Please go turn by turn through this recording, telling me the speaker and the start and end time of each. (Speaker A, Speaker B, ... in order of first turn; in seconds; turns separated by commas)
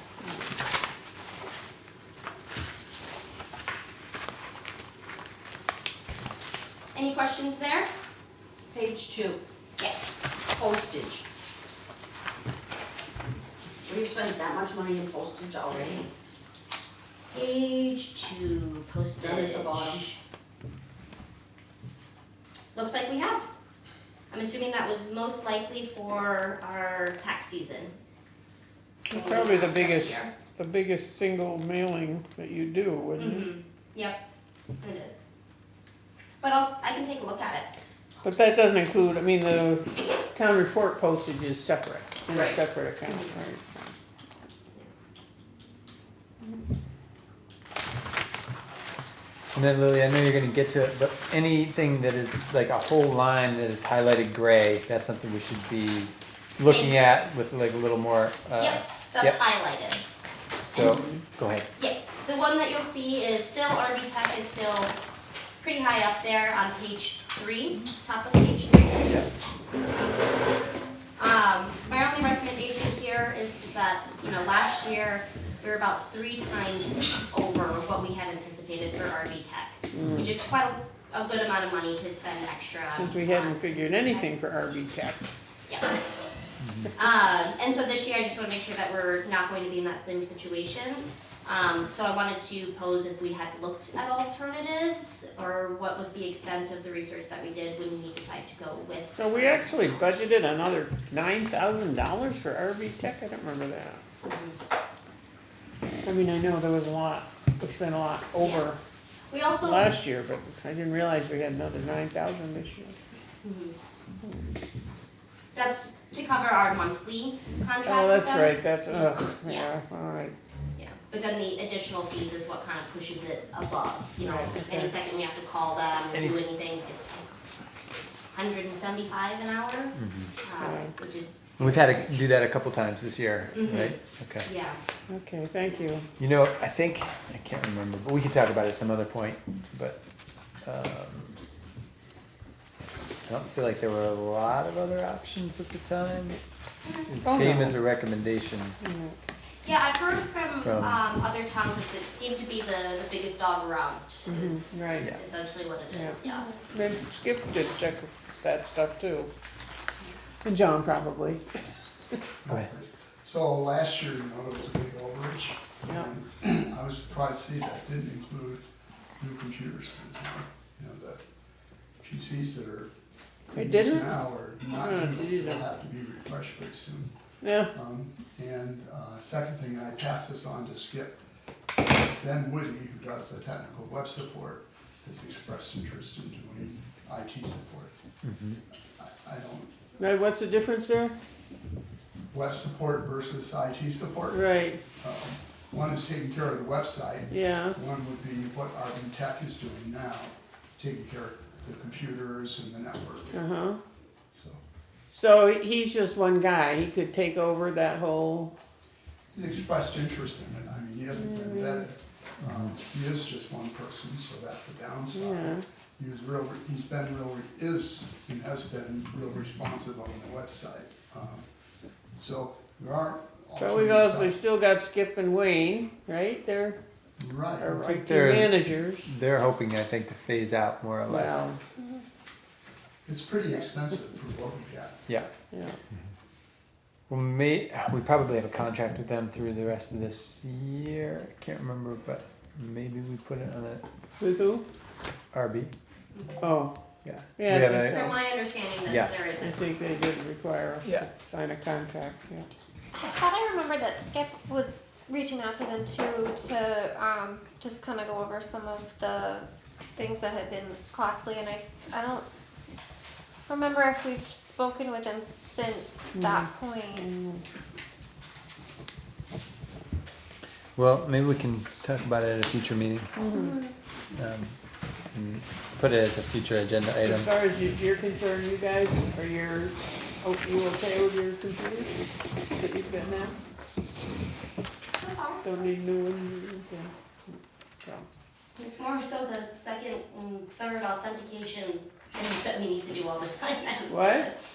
Speaker A: 6.9-7.9, Speaker B: 8.7-9.4, Speaker A: 9.8-10.2, Speaker B: 10.5-11.2, Speaker B: 13.8-16.1, Speaker A: 17.3-20.2, Speaker B: 19.2-20.1, Speaker A: 22.7-23.5, Speaker A: 24.3-27.9, Speaker C: 29.1-33.5, Speaker A: 29.1-30.3, Speaker A: 33.2-34.2, Speaker A: 34.8-35.2, Speaker A: 36.4-37.7, Speaker C: 38.2-43.9, Speaker A: 42.3-43.4, Speaker D: 49.5-59.4, Speaker A: 56.7-57.0, Speaker A: 58.6-60.0, Speaker D: 60.6-61.7, Speaker A: 61.8-64.9, Speaker A: 65.6-69.1, Speaker A: 71.2-84.2, Speaker C: 79.9-80.3, Speaker C: 82.9-85.3, Speaker A: 85.7-86.0, Speaker D: 86.6-86.9, Speaker A: 87.0-99.1, Speaker C: 99.1-104.0, Speaker A: 104.2-104.6, Speaker C: 106.0-108.8, Speaker A: 108.4-108.7, Speaker A: 109.3-109.9, Speaker C: 109.6-113.0, Speaker A: 113.4-113.8, Speaker A: 115.5-119.7, Speaker C: 117.8-120.3, Speaker A: 120.8-127.3, Speaker C: 124.2-124.9, Speaker A: 128.3-132.2, Speaker D: 129.9-130.3, Speaker C: 130.6-130.9, Speaker D: 131.6-134.5, Speaker A: 133.5-134.8, Speaker C: 135.1-136.1, Speaker D: 136.2-140.0, Speaker D: 140.6-141.4, Speaker D: 143.2-146.4, Speaker A: 146.8-147.1, Speaker D: 147.1-148.8, Speaker C: 147.2-147.8, Speaker C: 148.8-149.2, Speaker A: 149.6-156.5, Speaker D: 150.6-151.0, Speaker C: 154.3-155.1, Speaker C: 155.9-159.3, Speaker E: 156.2-156.6, Speaker C: 160.4-161.6, Speaker F: 162.4-168.6, Speaker F: 169.2-171.2, Speaker F: 172.0-172.9, Speaker F: 173.5-177.1, Speaker C: 173.5-175.6, Speaker C: 177.4-177.7, Speaker F: 177.7-181.2, Speaker F: 182.0-187.9, Speaker D: 188.2-188.6, Speaker F: 188.9-190.0, Speaker C: 190.0-191.2, Speaker F: 192.3-203.4, Speaker C: 194.3-194.8, Speaker C: 197.3-197.8, Speaker C: 203.3-203.8, Speaker F: 204.3-204.6, Speaker C: 205.1-208.5, Speaker F: 209.3-221.4, Speaker C: 211.2-211.8, Speaker C: 215.1-215.6, Speaker F: 222.2-224.3, Speaker C: 223.6-226.8, Speaker F: 227.2-227.9, Speaker C: 227.6-229.1, Speaker D: 227.8-231.4, Speaker C: 231.1-231.6, Speaker F: 233.1-235.0, Speaker C: 235.5-235.8, Speaker D: 237.1-243.8, Speaker C: 244.2-244.6, Speaker D: 245.3-245.7, Speaker C: 246.4-246.7, Speaker D: 247.0-248.1, Speaker C: 247.3-248.2, Speaker A: 247.8-249.6, Speaker D: 248.8-249.1, Speaker C: 249.4-252.5, Speaker E: 252.9-262.2, Speaker E: 263.5-267.1, Speaker C: 266.1-267.4, Speaker D: 270.8-273.2, Speaker C: 273.2-273.5, Speaker E: 273.3-273.7, Speaker D: 274.1-274.6, Speaker D: 275.1-277.3, Speaker C: 277.0-283.4, Speaker A: 285.0-285.4, Speaker C: 285.4-288.1, Speaker A: 288.6-294.4, Speaker C: 293.9-294.3